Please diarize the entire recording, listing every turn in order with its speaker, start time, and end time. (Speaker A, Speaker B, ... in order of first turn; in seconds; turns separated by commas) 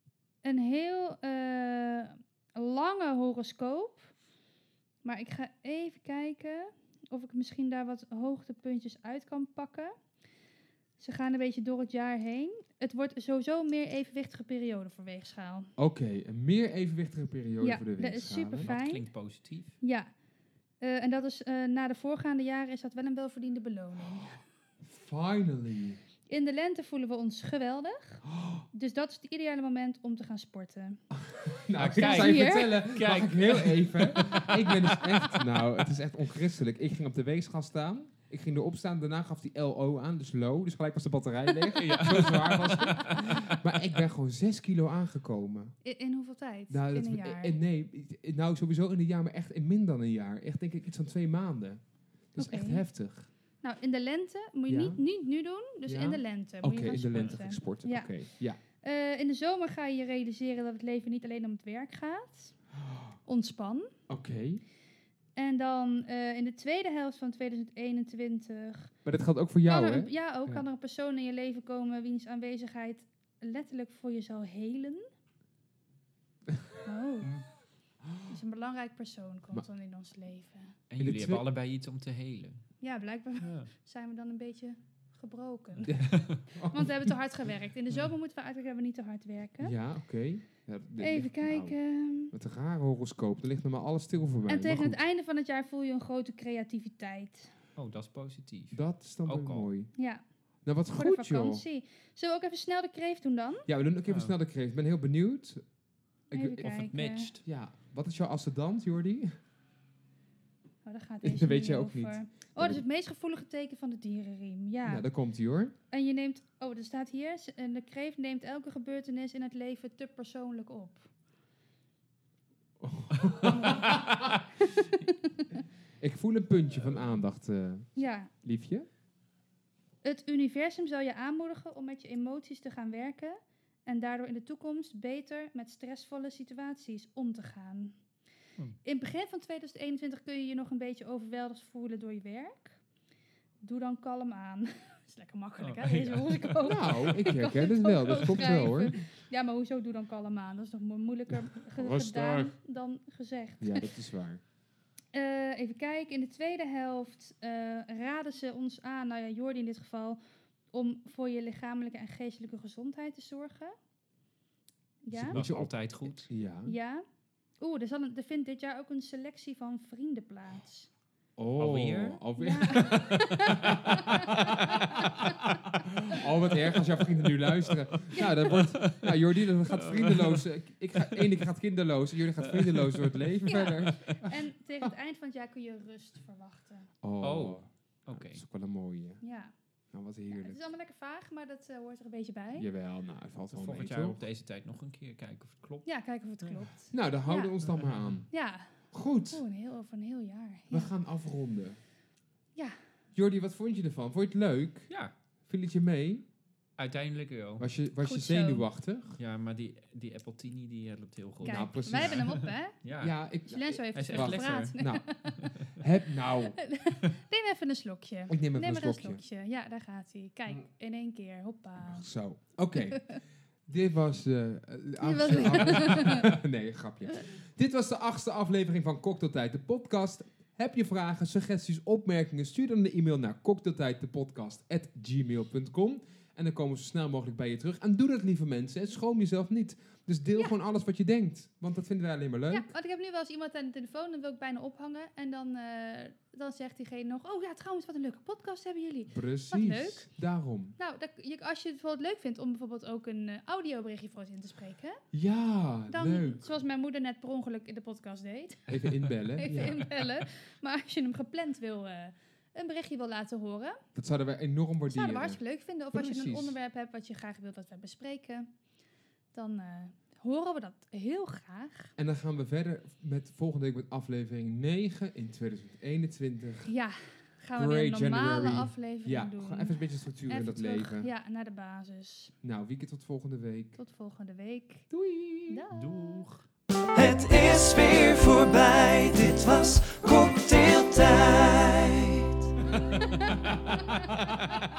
Speaker A: 0.4-4.1, Speaker A: 5.0-9.9, Speaker A: 11.0-15.7, Speaker B: 15.8-18.7, Speaker A: 17.6-19.1, Speaker C: 18.6-19.8, Speaker A: 19.8-20.1, Speaker A: 20.8-24.4, Speaker B: 24.8-26.0, Speaker A: 26.3-31.0, Speaker B: 28.3-28.6, Speaker B: 31.1-45.7, Speaker C: 31.8-35.4, Speaker A: 31.9-32.8, Speaker C: 41.7-43.4, Speaker A: 45.8-47.6, Speaker B: 46.7-51.8, Speaker B: 52.3-53.3, Speaker A: 52.4-52.9, Speaker A: 53.6-58.1, Speaker B: 54.7-55.0, Speaker B: 55.9-58.6, Speaker A: 58.8-62.5, Speaker B: 62.8-63.1, Speaker A: 63.2-63.9, Speaker B: 64.1-64.6, Speaker A: 65.3-68.9, Speaker B: 69.0-70.6, Speaker A: 69.7-75.1, Speaker A: 76.8-77.3, Speaker A: 78.3-80.8, Speaker C: 80.9-82.6, Speaker B: 81.0-81.4, Speaker A: 82.8-86.0, Speaker C: 83.4-83.7, Speaker C: 85.8-86.4, Speaker B: 85.9-87.1, Speaker A: 86.6-89.7, Speaker B: 89.6-91.8, Speaker A: 91.0-92.3, Speaker B: 92.3-95.0, Speaker A: 94.5-97.5, Speaker C: 97.8-99.7, Speaker B: 98.7-99.9, Speaker A: 100.0-100.2, Speaker B: 100.6-101.6, Speaker A: 100.9-103.7, Speaker B: 103.7-105.6, Speaker C: 104.1-104.3, Speaker B: 106.3-106.6, Speaker A: 106.3-107.3, Speaker C: 106.6-107.4, Speaker B: 107.4-109.3, Speaker A: 110.8-115.0, Speaker B: 111.2-112.8, Speaker B: 114.8-115.8, Speaker A: 115.9-121.1, Speaker B: 122.8-124.3, Speaker A: 123.4-125.6, Speaker B: 126.0-128.9, Speaker A: 128.0-128.3, Speaker A: 130.0-138.0, Speaker A: 138.8-142.8, Speaker A: 143.6-153.9, Speaker C: 145.6-147.0, Speaker B: 146.6-148.9, Speaker C: 148.1-148.5, Speaker B: 151.3-152.6, Speaker B: 153.6-154.4, Speaker A: 155.1-160.2, Speaker A: 160.7-163.8, Speaker A: 165.0-165.4, Speaker B: 165.1-166.7, Speaker C: 165.3-166.3, Speaker A: 166.7-167.0, Speaker A: 167.6-170.9, Speaker B: 171.4-184.3, Speaker C: 171.6-172.2, Speaker A: 172.4-176.2, Speaker C: 172.7-173.0, Speaker C: 174.2-175.5, Speaker C: 176.7-180.4, Speaker A: 178.1-178.5, Speaker C: 181.0-181.4, Speaker C: 182.4-183.2, Speaker A: 183.4-186.9, Speaker B: 187.0-189.2, Speaker C: 187.2-188.4, Speaker A: 189.2-189.5, Speaker B: 189.9-190.6, Speaker A: 190.3-192.7, Speaker B: 192.5-194.2, Speaker C: 193.5-195.9, Speaker A: 195.8-197.5, Speaker C: 196.4-196.7, Speaker B: 196.9-198.3, Speaker C: 197.7-198.1, Speaker A: 198.3-198.8, Speaker B: 198.9-199.4, Speaker A: 199.3-200.9, Speaker B: 200.7-201.8, Speaker B: 203.1-204.9, Speaker B: 205.5-206.2, Speaker C: 206.8-207.7, Speaker B: 207.6-209.2, Speaker A: 208.0-208.7, Speaker C: 209.2-213.2, Speaker A: 211.4-212.8, Speaker B: 211.4-212.3, Speaker B: 213.0-215.1, Speaker A: 213.5-215.3, Speaker C: 213.9-214.7, Speaker C: 215.3-215.7, Speaker B: 215.7-216.6, Speaker A: 216.6-222.1, Speaker B: 218.3-219.2, Speaker B: 221.8-242.7, Speaker A: 222.8-223.2, Speaker A: 225.0-226.3, Speaker A: 242.5-250.1, Speaker B: 249.1-250.8, Speaker A: 250.8-255.0, Speaker B: 255.1-256.4, Speaker A: 255.9-258.7, Speaker B: 258.7-259.9, Speaker A: 259.4-263.8, Speaker B: 263.9-265.4, Speaker A: 264.9-268.5, Speaker B: 265.9-266.5, Speaker A: 269.3-271.9, Speaker B: 272.0-276.7, Speaker A: 276.6-282.3, Speaker B: 277.5-281.1, Speaker B: 282.4-283.8, Speaker A: 283.8-284.9, Speaker B: 284.9-285.6, Speaker A: 285.5-286.2, Speaker C: 285.7-286.5, Speaker D: 286.9-292.4, Speaker A: 293.0-294.0